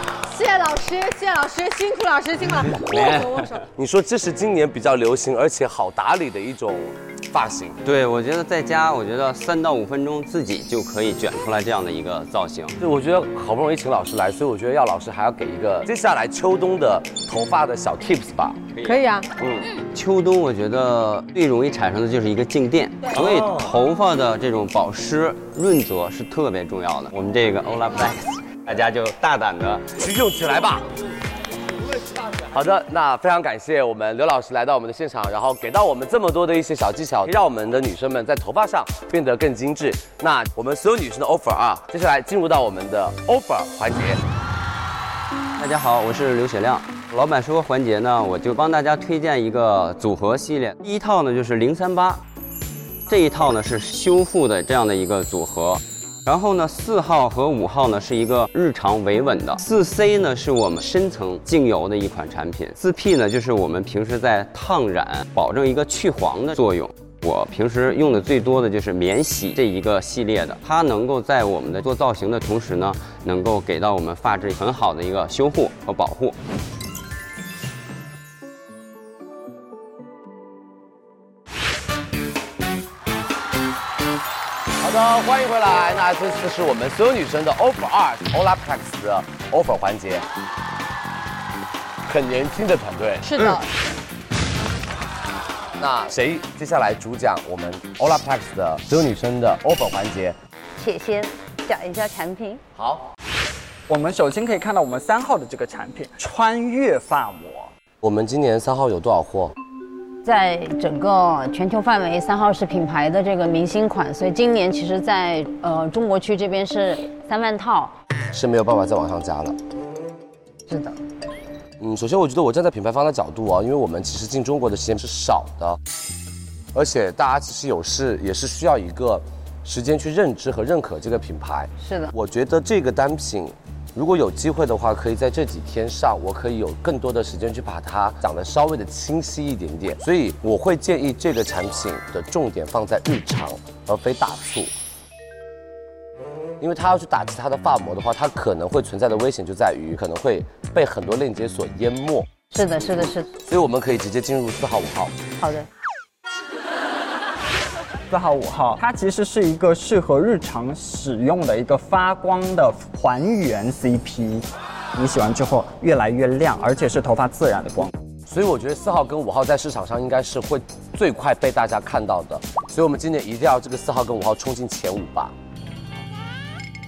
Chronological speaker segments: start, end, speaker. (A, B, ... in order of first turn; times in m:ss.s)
0:00.3-0:03.6 A
0:03.8-0:07.8 B
0:07.8-0:12.8 C
0:12.8-0:18.6 B
0:18.8-0:29.9 C
0:18.8-0:19.3 A
0:23.2-0:23.7 B
0:30.0-0:30.9 B
0:32.4-0:44.2 B
0:45.6-0:52.2 C
0:53.1-1:16.4 C
1:24.8-1:30.3 B
1:32.1-1:33.3 B
1:33.2-1:33.7 A
1:35.8-1:40.4 B
1:40.8-1:42.6 D
1:42.8-1:43.1 B
1:43.9-1:47.7 E
1:48.0-1:49.5 B
1:50.2-1:57.9 D
1:58.3-1:59.6 B
2:00.7-2:01.0 D
2:01.8-2:05.8 B
2:06.7-2:24.7 B
2:11.8-2:12.1 D
2:26.6-2:32.3 B
2:32.5-2:33.3 D
2:33.4-2:35.1 B
2:35.4-2:35.7 D
2:38.1-2:44.4 E
2:45.0-2:47.9 E
2:48.3-2:55.3 B